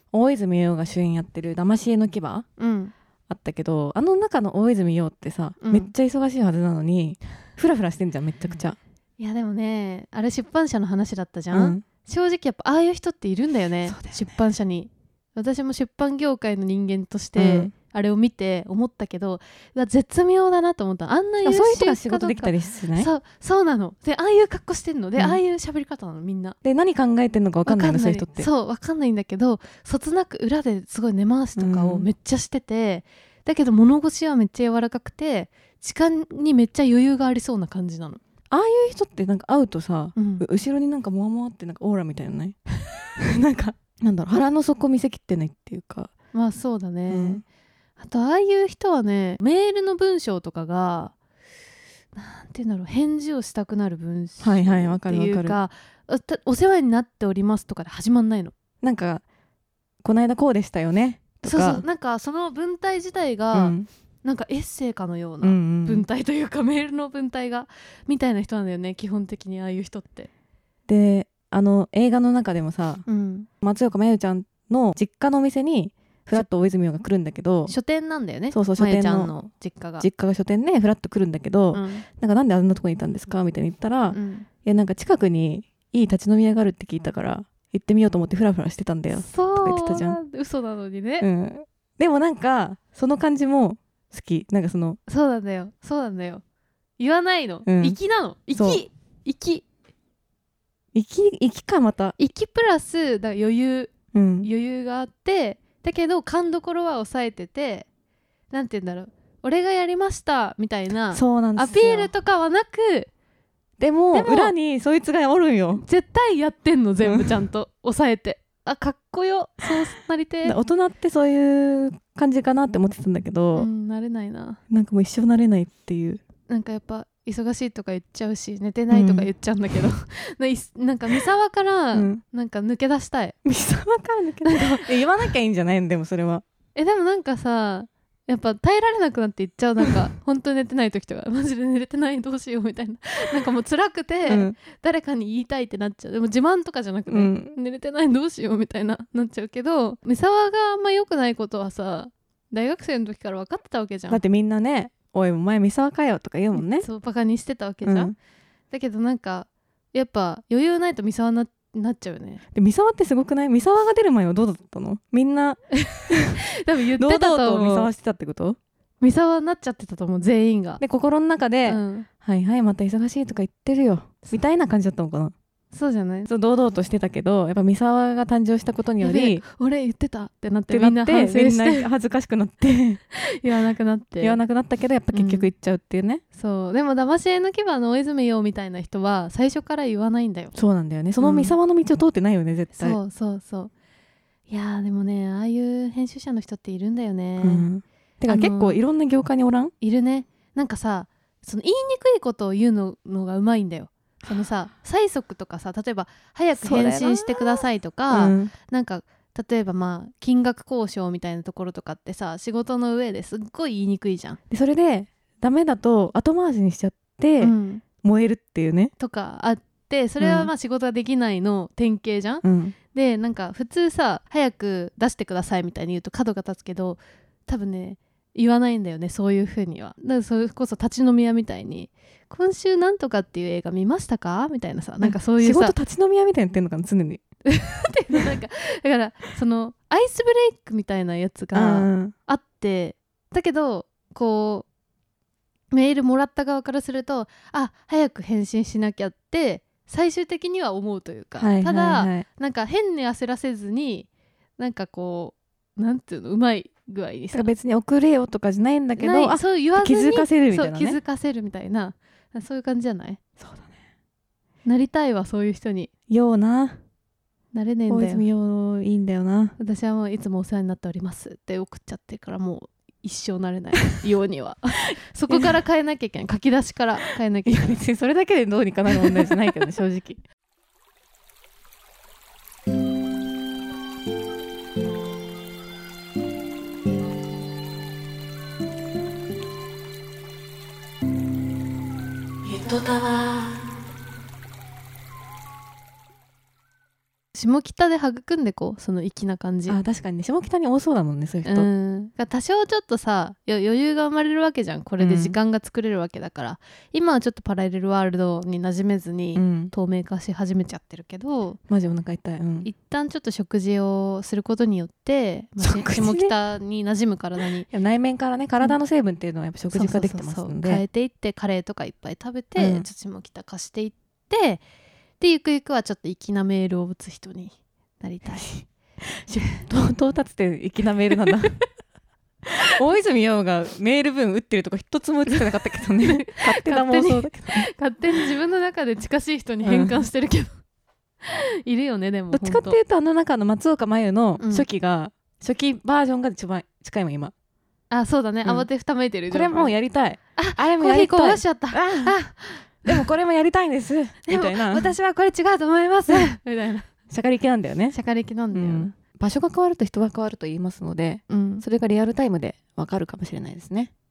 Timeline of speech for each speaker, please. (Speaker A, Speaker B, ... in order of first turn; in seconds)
Speaker A: 0.1-2.5, 3.3-8.8, 11.5-11.8, 13.9-14.3, 17.4-17.7, 21.4-23.1, 26.6-28.5, 31.6-32.1, 38.5-42.6, 43.2-46.1, 47.1-47.4, 54.4-55.6, 58.8-59.2, 60.0-61.8, 63.5-63.9, 65.4-66.1, 70.9-73.0, 73.6-77.7, 78.5-79.3, 80.0-90.2, 91.2-95.0, 97.7-98.0, 98.5-98.8, 100.9-102.2, 104.1-104.5, 111.1-112.1, 113.8-115.8, 117.0-117.4, 120.4-123.7, 124.7-126.2, 128.9-129.3, 131.9-132.2, 133.4-136.4, 144.3-144.6, 147.1-147.5, 154.1-156.9, 157.8-158.2, 162.5-166.4, 167.0-168.6, 170.8-175.3, 176.3-179.4, 180.7-183.0, 184.2-186.2, 190.5-193.0, 197.4-199.7, 206.6-207.4, 208.1-208.5, 214.5-218.9, 220.2-220.5, 222.4-222.8, 235.0-237.2, 241.5-242.1, 251.4-252.2, 257.3-261.0, 263.4-263.7, 266.1-266.8, 267.9-269.6, 277.5-280.2, 292.4-293.6, 299.7-301.7, 305.0-305.4, 309.4-309.7, 311.7-312.7, 315.6-316.3, 317.7-320.8, 322.6-322.9, 328.4-328.6, 329.2-331.6, 332.7-337.7, 339.6-340.0, 342.3-347.3, 349.3-352.2, 352.9-354.9, 357.1-358.0, 358.5-363.9
Speaker B: 2.6-2.9, 5.6-5.9, 9.2-26.6, 27.7-38.2, 40.2-40.5, 46.3-47.4, 48.0-51.1, 52.2-58.5, 61.4-70.3, 73.1-73.5, 77.7-80.1, 81.7-82.0, 84.1-84.5, 89.1-91.3, 95.1-96.4, 97.0-99.7, 102.2-107.9, 108.5-113.1, 114.1-114.5, 115.8-120.6, 123.5-124.6, 126.5-133.4, 134.4-134.9, 136.8-154.2, 156.6-158.1, 158.7-162.4, 165.8-167.9, 169.0-170.8, 171.7-172.1, 175.7-176.3, 179.0-181.9, 183.1-184.4, 185.1-185.5, 186.3-190.5, 191.2-191.6, 192.8-193.7, 194.5-197.7, 198.3-198.8, 199.8-214.4, 217.4-217.8, 219.0-235.8, 237.5-244.7, 245.7-257.5, 259.0-263.2, 264.6-265.9, 267.5-268.3, 269.6-277.7, 297.3-299.8, 301.4-311.6, 312.6-317.7, 319.7-324.6, 325.2-328.6, 336.0-340.5, 341.2-342.8, 344.4-344.7, 347.9-349.7, 350.4-353.1, 354.3-356.9, 357.9-358.9, 361.3-361.6